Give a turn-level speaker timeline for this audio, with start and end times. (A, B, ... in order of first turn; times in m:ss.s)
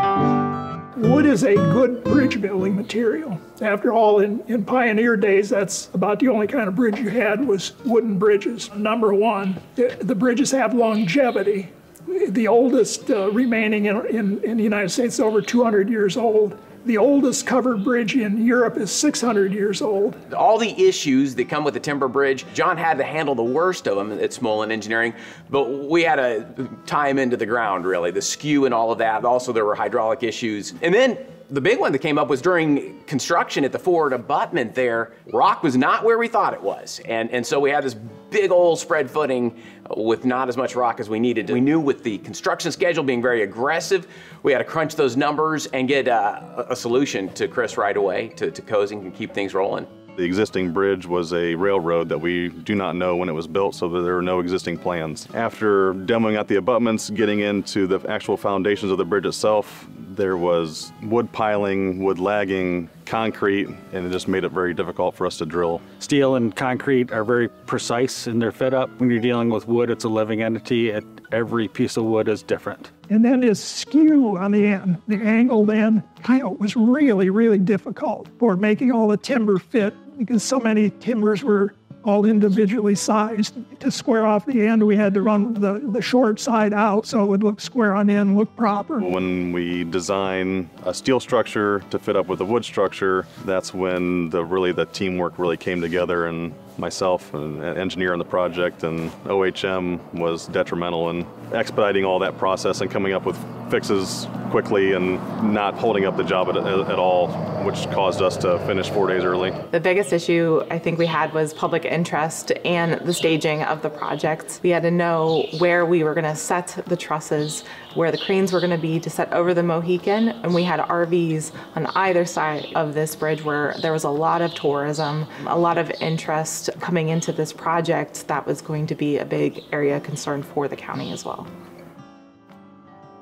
0:00.9-0:20.2 A
0:20.3-0:49.9 B
0:50.2-1:05.9 C
1:06.0-1:12.9 D
1:13.1-1:29.0 A
1:29.0-1:49.6 C
1:49.7-2:11.5 E